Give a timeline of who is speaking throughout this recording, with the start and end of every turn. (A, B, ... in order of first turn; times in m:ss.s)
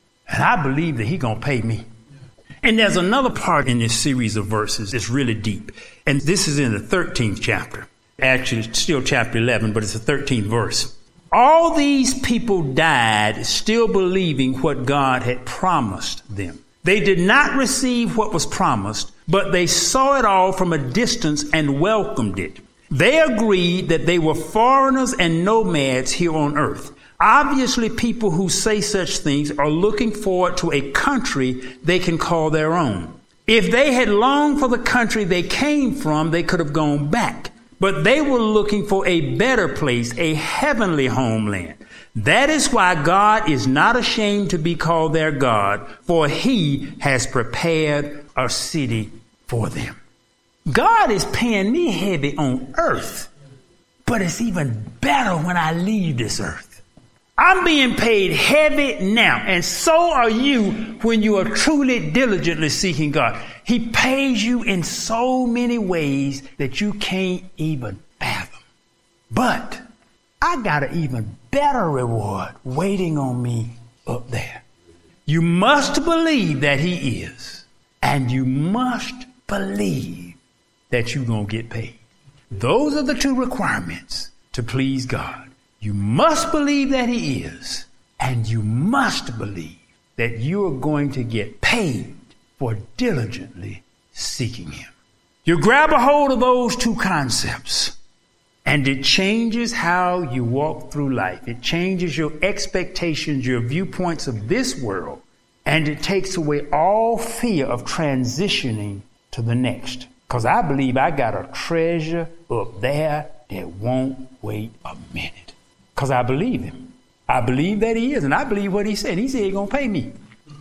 0:00.3-0:01.8 A
0:02.6-0:50.0 A
0:50.7-0:53.3 A
0:54.1-0:56.8 A
0:57.4-1:08.6 A
1:09.3-1:09.8 A
1:10.4-1:14.6 A
1:15.3-1:20.4 A
1:20.9-1:22.0 A
1:22.5-1:34.9 A
1:35.4-1:38.0 A
1:38.6-2:00.1 A